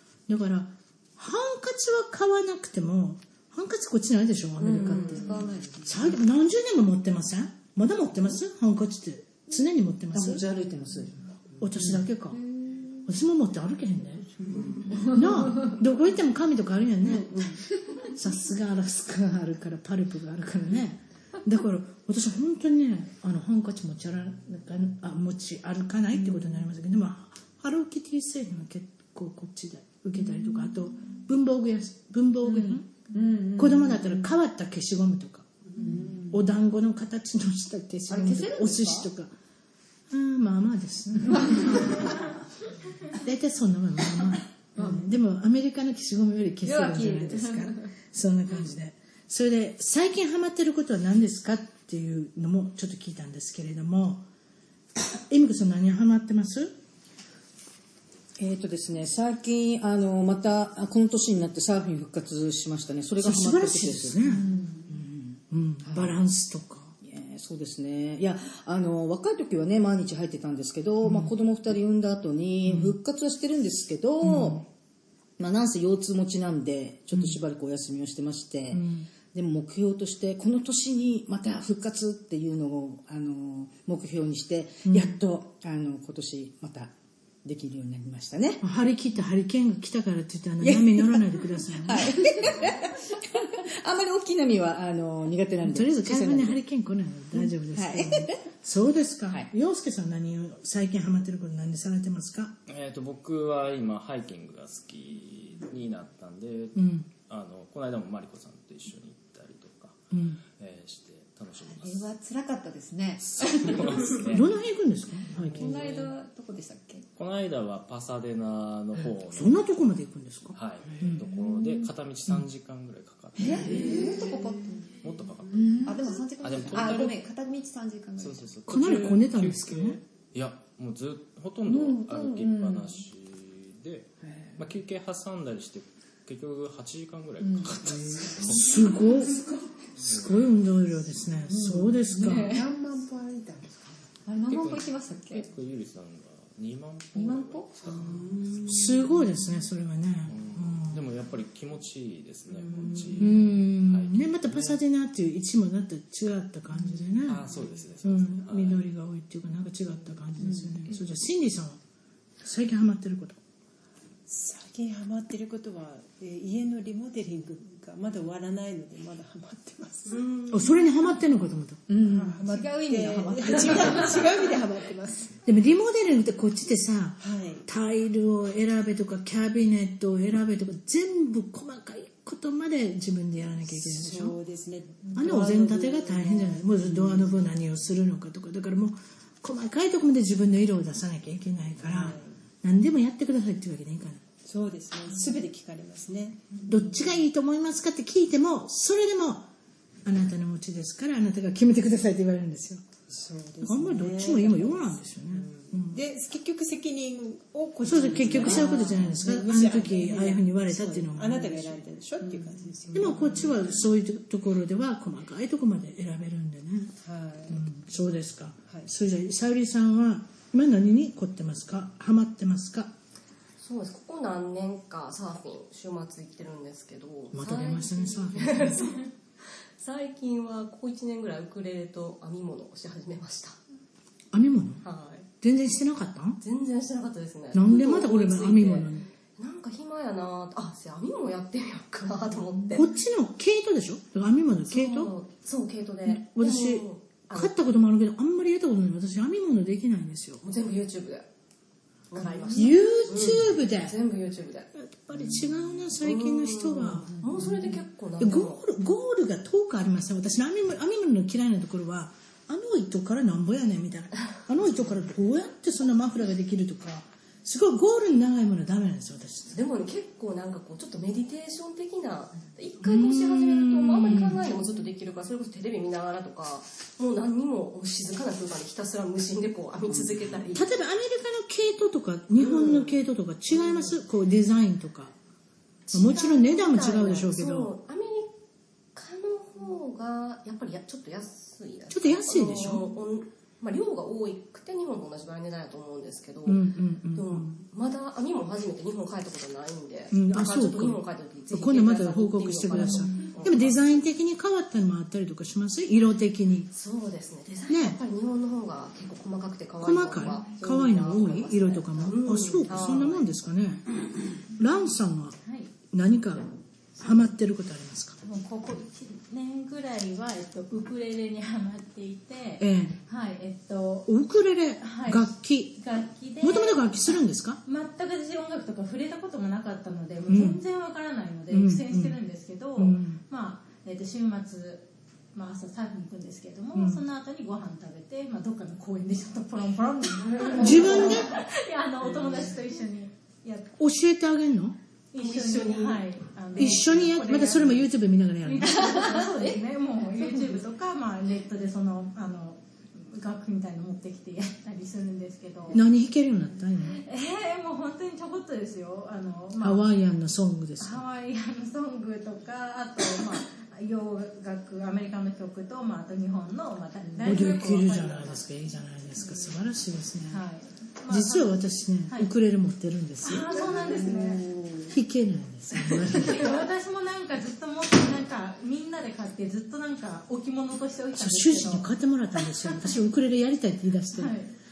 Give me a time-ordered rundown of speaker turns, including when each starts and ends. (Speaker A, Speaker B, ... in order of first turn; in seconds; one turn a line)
Speaker A: 0.3-10.4
Speaker B: 4.6-6.2
Speaker C: 10.1-12.0
Speaker A: 11.6-12.4
Speaker B: 12.3-13.1
Speaker A: 13.1-14.2
Speaker C: 14.4-15.1
Speaker B: 14.5-15.7
Speaker A: 15.1-32.9
Speaker B: 32.4-34.3
Speaker A: 33.5-35.5
Speaker B: 35.8-36.4
Speaker A: 36.3-39.3
Speaker B: 38.1-39.1
Speaker A: 40.1-41.9
Speaker B: 41.3-42.0
Speaker A: 43.1-54.2
Speaker B: 46.6-47.9
Speaker A: 55.0-56.8
Speaker C: 58.4-64.4
Speaker A: 63.2-66.9
Speaker B: 64.2-64.8
Speaker C: 65.8-66.2
Speaker C: 67.0-74.7
Speaker A: 71.0-71.3
Speaker A: 72.6-73.0
Speaker A: 74.2-74.6
Speaker C: 75.4-86.9
Speaker A: 77.1-77.4
Speaker A: 78.7-79.1
Speaker A: 84.8-85.2
Speaker C: 87.4-88.6
Speaker A: 88.6-92.5
Speaker C: 90.6-91.2
Speaker C: 91.8-96.6
Speaker B: 92.1-92.5
Speaker A: 95.6-102.5
Speaker C: 97.4-98.4
Speaker D: 102.7-110.0
Speaker A: 106.7-107.1
Speaker A: 110.1-110.4
Speaker D: 110.6-112.1
Speaker B: 111.6-114.2
Speaker D: 113.2-114.4
Speaker A: 114.2-115.6
Speaker D: 115.3-116.1
Speaker B: 115.4-117.0
Speaker D: 117.2-119.7
Speaker A: 119.3-121.2
Speaker D: 120.5-124.1
Speaker B: 123.4-124.9
Speaker D: 125.0-127.2
Speaker B: 125.5-128.4
Speaker D: 128.2-138.8
Speaker A: 128.7-130.0
Speaker B: 131.7-132.9
Speaker B: 137.4-137.7
Speaker A: 138.5-139.4
Speaker A: 140.0-142.6
Speaker D: 140.0-140.4
Speaker B: 141.5-142.6
Speaker E: 142.1-144.0
Speaker B: 144.2-145.5
Speaker D: 144.5-149.0
Speaker B: 147.1-147.7
Speaker A: 148.7-151.0
Speaker D: 150.3-154.8
Speaker A: 153.2-157.5
Speaker D: 157.2-158.9
Speaker A: 158.0-161.8
Speaker A: 162.4-163.4
Speaker E: 164.3-170.2
Speaker F: 170.1-170.7
Speaker A: 170.5-171.8
Speaker B: 171.9-174.2
Speaker E: 172.0-175.4
Speaker A: 175.4-184.4
Speaker E: 177.2-177.7
Speaker E: 183.7-187.3
Speaker A: 185.1-194.2
Speaker E: 191.8-192.4
Speaker E: 194.4-197.2
Speaker A: 196.7-199.5
Speaker A: 200.0-202.8
Speaker E: 203.1-205.1
Speaker A: 203.6-206.0
Speaker E: 205.8-213.8
Speaker A: 207.8-211.8
Speaker A: 212.9-216.9
Speaker E: 217.0-217.7
Speaker A: 217.5-222.9
Speaker F: 223.6-233.6
Speaker A: 227.3-228.9
Speaker A: 234.3-234.8
Speaker F: 234.8-235.3
Speaker A: 235.4-236.4
Speaker F: 236.4-242.9
Speaker A: 237.5-239.1
Speaker A: 242.7-245.1
Speaker F: 244.7-247.7
Speaker A: 246.1-250.4
Speaker F: 250.4-251.3
Speaker F: 252.1-254.7
Speaker A: 252.5-254.0
Speaker A: 254.7-257.1
Speaker F: 256.0-258.6
Speaker A: 258.2-269.6
Speaker F: 269.5-280.7
Speaker A: 272.8-274.4
Speaker A: 280.5-285.1
Speaker F: 282.4-283.0
Speaker F: 283.5-283.9
Speaker F: 285.9-288.3
Speaker A: 285.9-287.7
Speaker F: 288.9-303.8
Speaker A: 291.9-292.8
Speaker A: 296.4-297.6
Speaker A: 300.1-306.7
Speaker F: 306.7-313.3
Speaker A: 307.6-308.0
Speaker A: 309.8-313.9
Speaker A: 314.6-316.4
Speaker G: 315.4-315.7
Speaker A: 317.0-318.2
Speaker G: 318.2-324.1
Speaker A: 322.6-323.0
Speaker A: 324.1-325.8
Speaker G: 324.8-343.7
Speaker A: 326.4-327.6
Speaker A: 330.2-330.6
Speaker A: 331.5-332.2
Speaker A: 332.8-333.2
Speaker A: 336.7-337.0
Speaker F: 340.5-340.9
Speaker A: 340.6-341.4
Speaker A: 343.8-344.8
Speaker G: 345.1-347.9
Speaker F: 345.2-346.8
Speaker A: 346.6-349.3
Speaker G: 348.4-355.8
Speaker A: 355.7-357.0
Speaker G: 356.9-359.9
Speaker A: 359.6-361.0
Speaker G: 360.8-368.5
Speaker A: 367.2-370.4
Speaker G: 370.3-372.3
Speaker A: 371.1-373.9
Speaker G: 373.2-374.4
Speaker B: 373.8-374.7
Speaker A: 374.9-376.6
Speaker G: 376.1-381.9
Speaker A: 381.1-384.4
Speaker G: 384.1-384.5